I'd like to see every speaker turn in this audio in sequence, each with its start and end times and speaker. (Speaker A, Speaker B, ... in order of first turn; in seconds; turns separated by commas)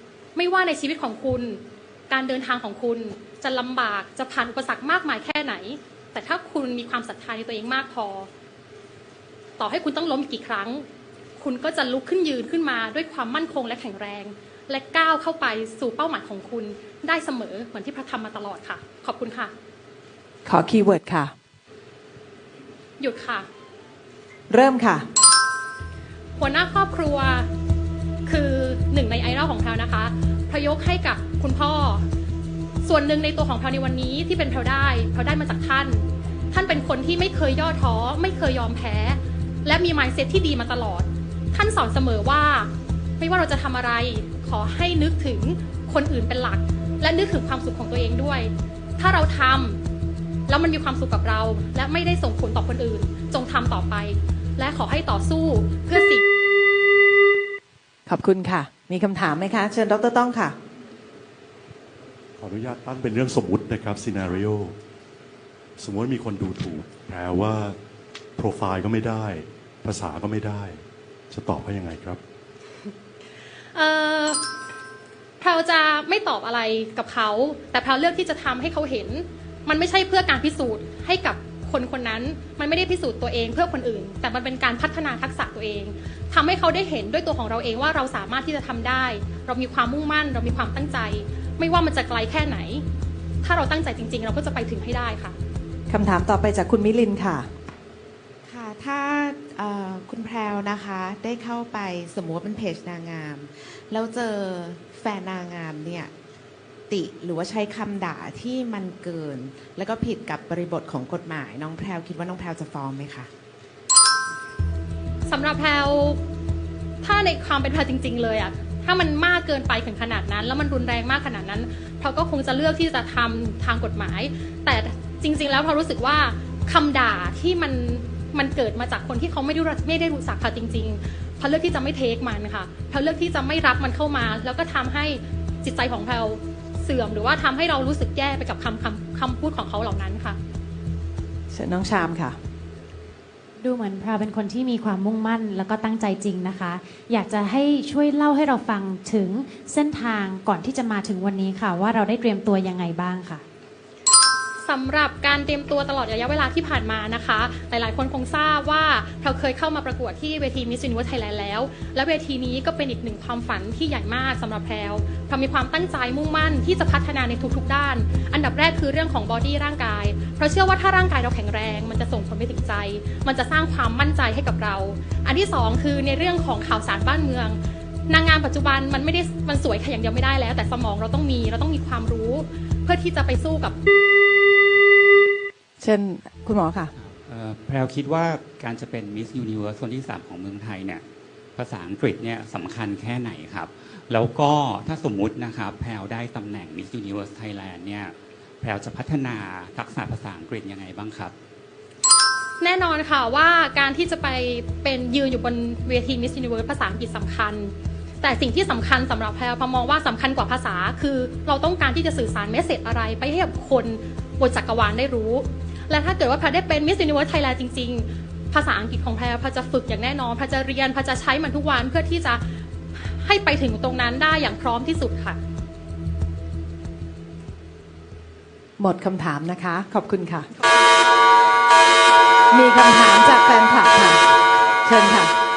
Speaker A: 0.3-8.3, Speaker A: 9.6-10.9, Speaker A: 11.4-19.5, Speaker B: 20.4-21.3, Speaker A: 23.0-23.5, Speaker B: 24.5-25.1, Speaker A: 26.4-27.5, Speaker A: 28.3-32.1, Speaker A: 32.8-49.8, Speaker A: 50.5-56.2, Speaker B: 58.1-60.6, Speaker C: 62.4-64.8, Speaker C: 65.8-67.8, Speaker C: 68.4-72.2, Speaker A: 73.7-74.4, Speaker A: 75.4-92.8, Speaker A: 93.4-95.4, Speaker B: 95.9-97.5, Speaker D: 98.5-106.1, Speaker D: 106.9-113.3, Speaker A: 115.3-116.2, Speaker A: 117.0-140.4, Speaker B: 141.5-142.4, Speaker E: 143.6-153.4, Speaker A: 154.7-183.8, Speaker B: 185.8-186.9, Speaker F: 187.0-191.0, Speaker F: 191.6-201.3, Speaker A: 202.6-225.4, Speaker B: 228.8-230.5, Speaker B: 232.5-234.2, Speaker B: 234.8-235.3